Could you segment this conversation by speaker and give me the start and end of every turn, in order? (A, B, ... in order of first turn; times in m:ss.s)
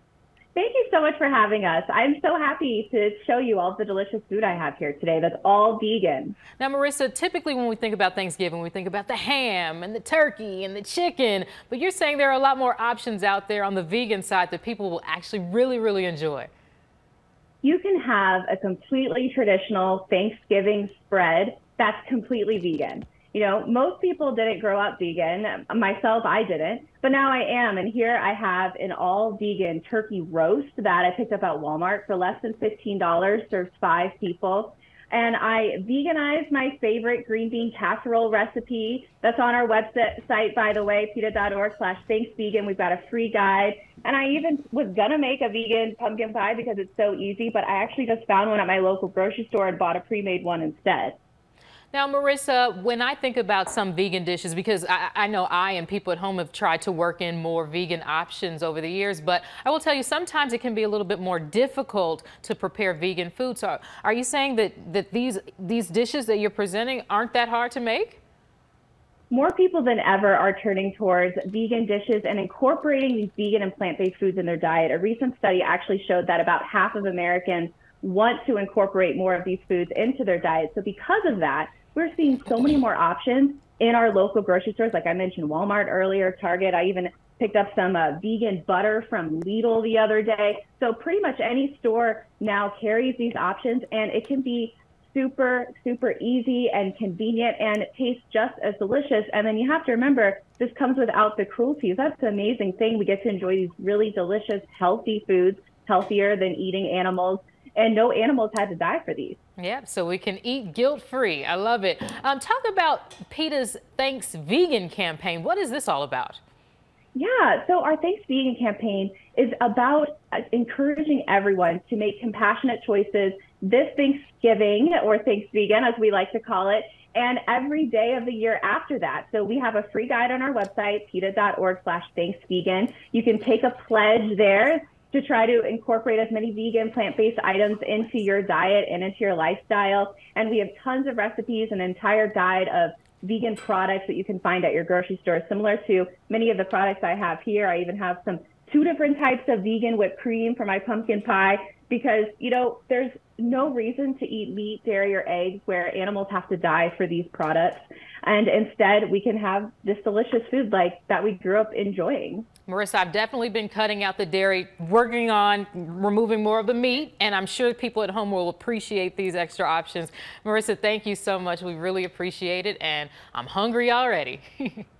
0:00.6-0:06.4 A
0:06.6-0:16.5 B
0:17.6-0:51.2 A
0:51.9-1:08.2 B
1:09.3-1:49.4 A
1:49.6-1:56.4 B
1:57.2-2:42.5 A
2:42.7-2:54.8 B